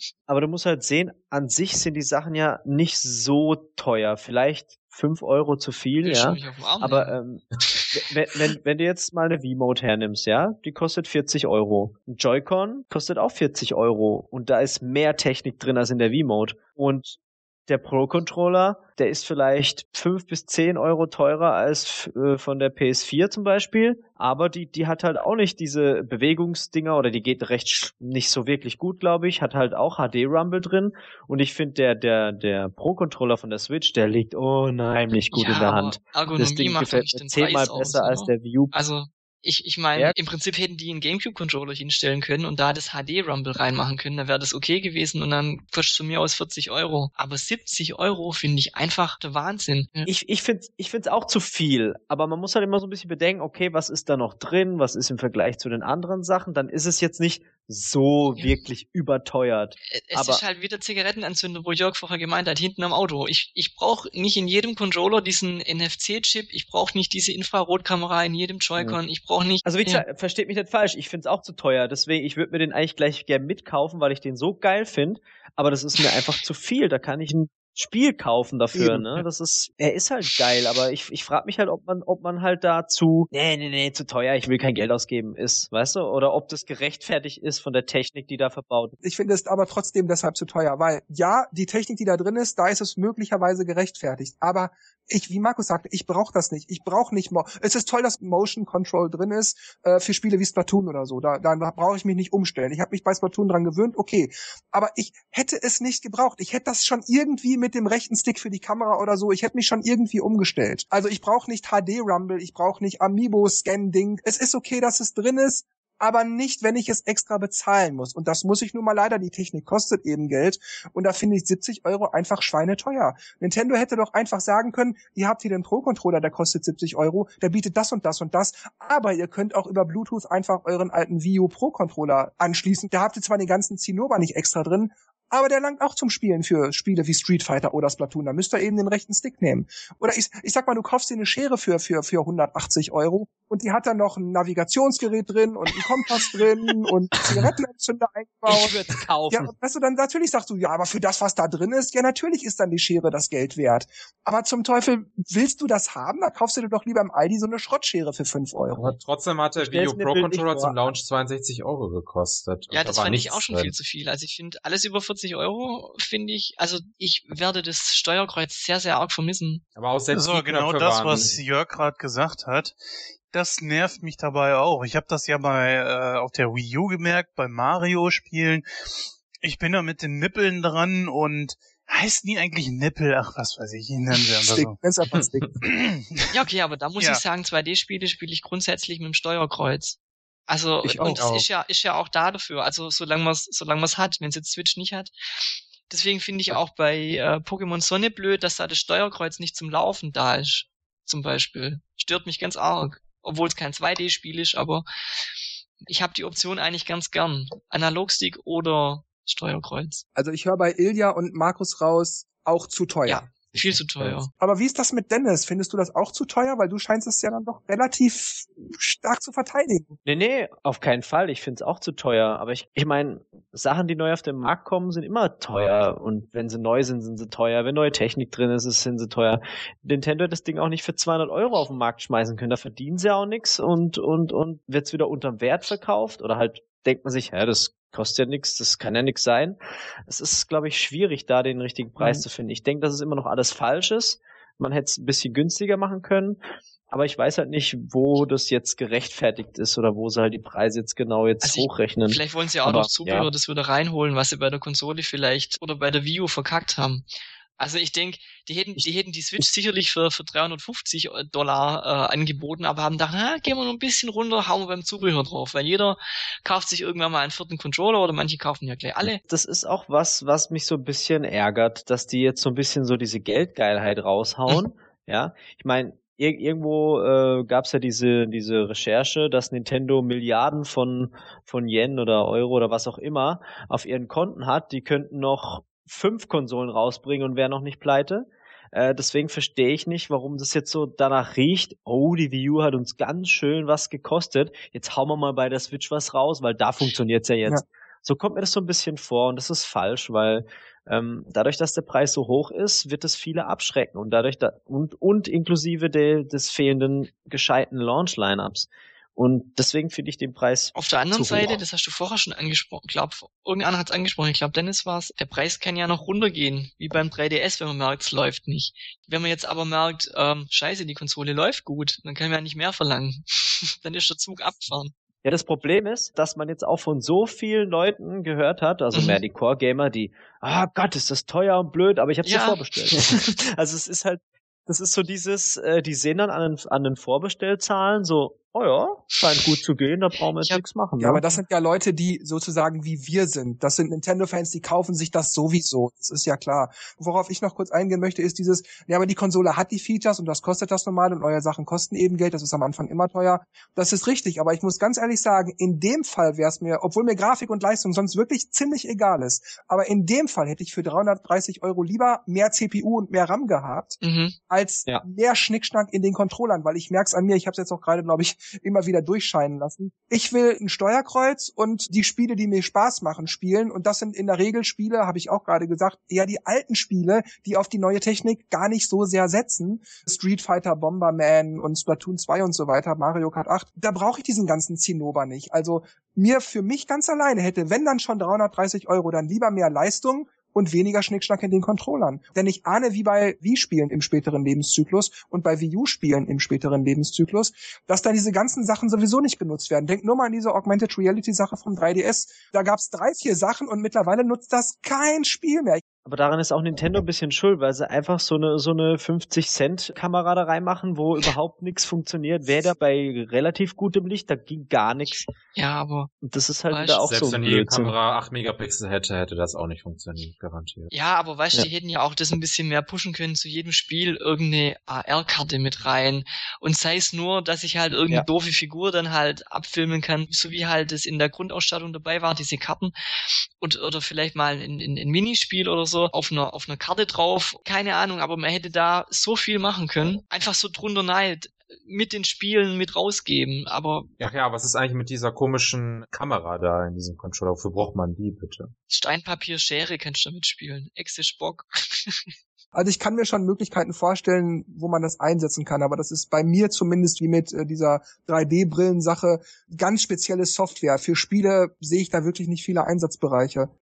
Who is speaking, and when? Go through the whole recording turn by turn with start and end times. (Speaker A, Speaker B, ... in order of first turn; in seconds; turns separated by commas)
Speaker A: 0.3-17.2, Speaker B: 6.0-8.0, Speaker A: 17.7-38.7, Speaker B: 35.3-50.1, Speaker A: 50.0-60.4, Speaker B: 59.9-70.0, Speaker A: 69.6-89.0, Speaker C: 78.7-79.2, Speaker C: 89.0-148.8, Speaker A: 147.2-147.5, Speaker A: 148.5-149.5, Speaker C: 149.3-159.0, Speaker D: 158.8-163.7, Speaker A: 159.6-160.9, Speaker B: 162.7-169.6, Speaker D: 169.8-171.4, Speaker E: 170.1-172.7, Speaker E: 173.3-184.8, Speaker C: 184.4-185.5, Speaker D: 185.2-185.4, Speaker E: 185.6-186.4, Speaker B: 186.3-190.0, Speaker E: 187.0-187.2, Speaker B: 190.5-195.1, Speaker C: 190.8-191.4, Speaker B: 195.9-204.8, Speaker B: 205.8-210.0, Speaker C: 210.2-213.3, Speaker B: 213.1-214.3, Speaker C: 214.3-219.9, Speaker A: 220.0-253.3, Speaker B: 251.4-257.1, Speaker B: 257.6-269.2, Speaker A: 269.2-310.7, Speaker B: 310.7-324.9, Speaker C: 311.1-311.6, Speaker A: 325.2-341.2, Speaker B: 328.9-329.2, Speaker B: 332.2-332.6, Speaker C: 341.0-364.0, Speaker B: 364.0-364.3, Speaker C: 364.5-405.8, Speaker A: 406.0-415.3, Speaker B: 415.5-416.1, Speaker A: 416.2-417.9, Speaker B: 416.7-417.0, Speaker D: 417.1-420.9, Speaker B: 420.9-432.9, Speaker B: 433.6-444.1, Speaker D: 444.2-448.7, Speaker B: 448.9-452.3, Speaker C: 452.7-463.7